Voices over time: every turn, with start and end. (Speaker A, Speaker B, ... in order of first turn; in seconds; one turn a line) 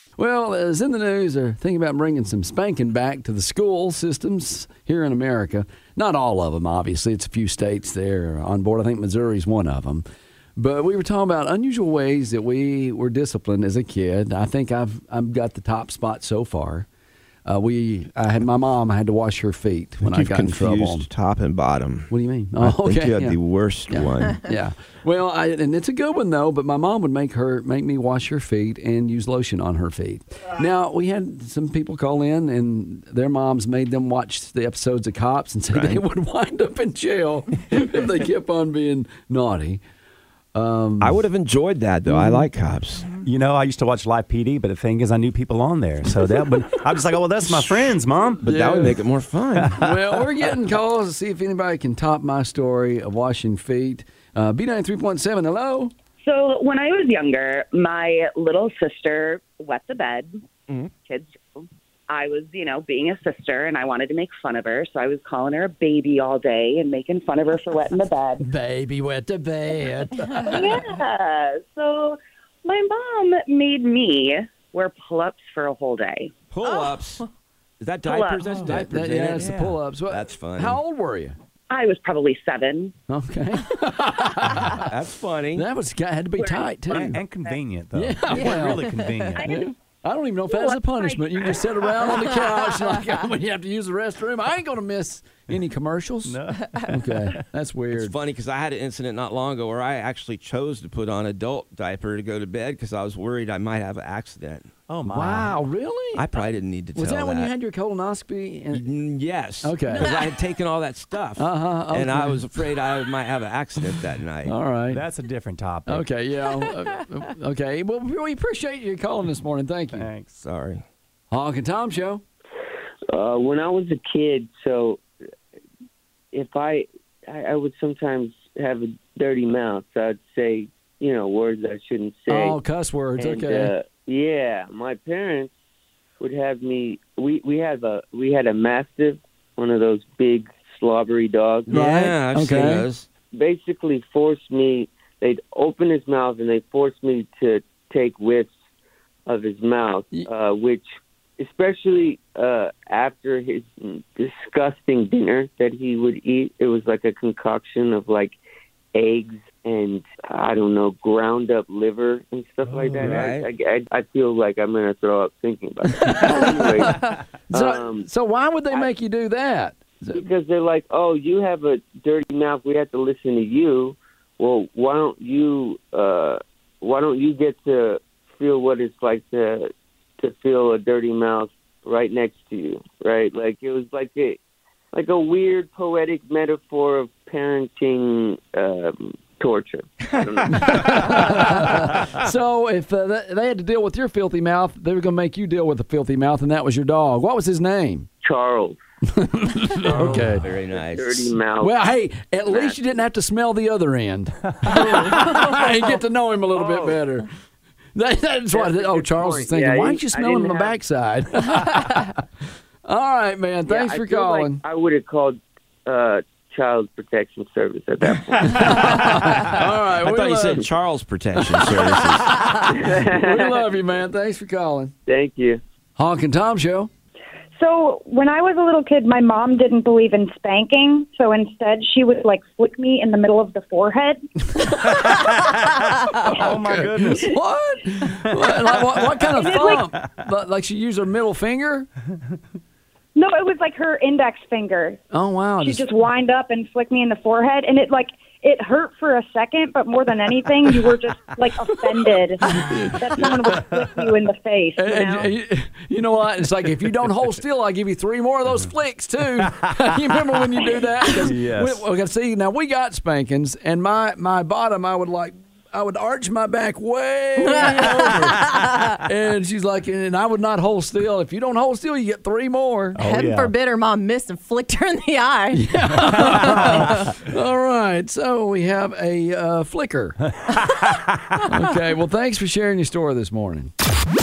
Speaker A: 0.2-10.0
Speaker A: 10.6-16.9
Speaker A: 17.4-21.1
Speaker B: 20.0-24.5
Speaker A: 22.1-23.4
Speaker A: 23.9-39.8
Speaker B: 35.7-36.0
Speaker A: 40.5-41.2
Speaker B: 41.0-43.0
Speaker A: 42.1-42.4
Speaker C: 43.2-48.8
Speaker A: 48.4-49.0
Speaker B: 48.4-49.9
Speaker C: 49.6-50.1
Speaker A: 49.7-55.9
Speaker D: 56.2-60.4
Speaker D: 60.9-68.4
Speaker A: 68.4-70.8
Speaker D: 70.5-76.3
Speaker B: 76.5-77.2
Speaker B: 77.8-80.8
Speaker D: 78.0-78.5
Speaker C: 78.4-78.8
Speaker A: 78.7-81.3
Speaker C: 79.3-79.8
Speaker D: 81.7-82.9
Speaker A: 83.1-84.9
Speaker B: 84.8-85.7
Speaker A: 85.5-87.2
Speaker D: 86.3-87.6
Speaker C: 86.9-89.7
Speaker A: 87.9-88.9
Speaker E: 88.3-89.3
Speaker A: 89.4-98.1
Speaker D: 90.5-92.2
Speaker C: 96.2-97.3
Speaker B: 97.9-104.7
Speaker C: 104.9-105.6
Speaker A: 105.1-106.2
Speaker B: 106.1-107.5
Speaker A: 106.9-108.8
Speaker B: 108.7-114.5
Speaker A: 109.6-110.3
Speaker A: 111.4-112.4
Speaker A: 114.5-115.0
Speaker C: 114.9-116.1
Speaker A: 115.9-120.1
Speaker C: 119.9-120.4
Speaker B: 120.4-120.8
Speaker A: 121.3-122.2
Speaker F: 123.1-125.0
Speaker F: 126.3-132.6
Speaker A: 132.3-133.7
Speaker F: 133.2-135.5
Speaker F: 136.2-141.7
Speaker B: 141.7-143.1
Speaker A: 141.7-142.8
Speaker F: 143.3-148.5
Speaker F: 149.2-150.9
Speaker F: 151.4-158.4
Speaker F: 158.9-168.1
Speaker B: 162.7-163.4
Speaker A: 166.0-170.2
Speaker F: 170.1-184.4
Speaker F: 184.9-191.4
Speaker A: 190.5-198.1
Speaker F: 198.2-198.8
Speaker A: 199.1-200.5
Speaker F: 199.8-201.8
Speaker B: 199.9-201.3
Speaker A: 201.6-207.3
Speaker F: 202.4-202.8
Speaker F: 206.5-207.0
Speaker A: 207.9-212.2
Speaker F: 208.5-210.8
Speaker A: 212.8-214.6
Speaker F: 213.7-219.2
Speaker A: 218.4-220.7
Speaker C: 218.8-219.3
Speaker B: 219.9-222.7
Speaker A: 221.6-224.9
Speaker F: 222.6-223.7
Speaker F: 225.1-225.6
Speaker A: 225.9-226.9
Speaker G: 227.6-234.2
Speaker A: 234.5-241.9
Speaker C: 236.1-237.3
Speaker C: 238.2-239.9
Speaker G: 239.3-239.9
Speaker G: 243.1-245.0
Speaker A: 245.1-245.9
Speaker G: 245.6-255.3
Speaker A: 251.7-253.5
Speaker A: 254.8-273.0
Speaker C: 259.4-260.0
Speaker C: 261.1-261.8
Speaker E: 267.4-268.9
Speaker C: 272.9-273.5
Speaker E: 273.0-276.9
Speaker A: 275.5-280.2
Speaker C: 276.3-276.8
Speaker C: 280.6-281.4
Speaker A: 281.4-283.7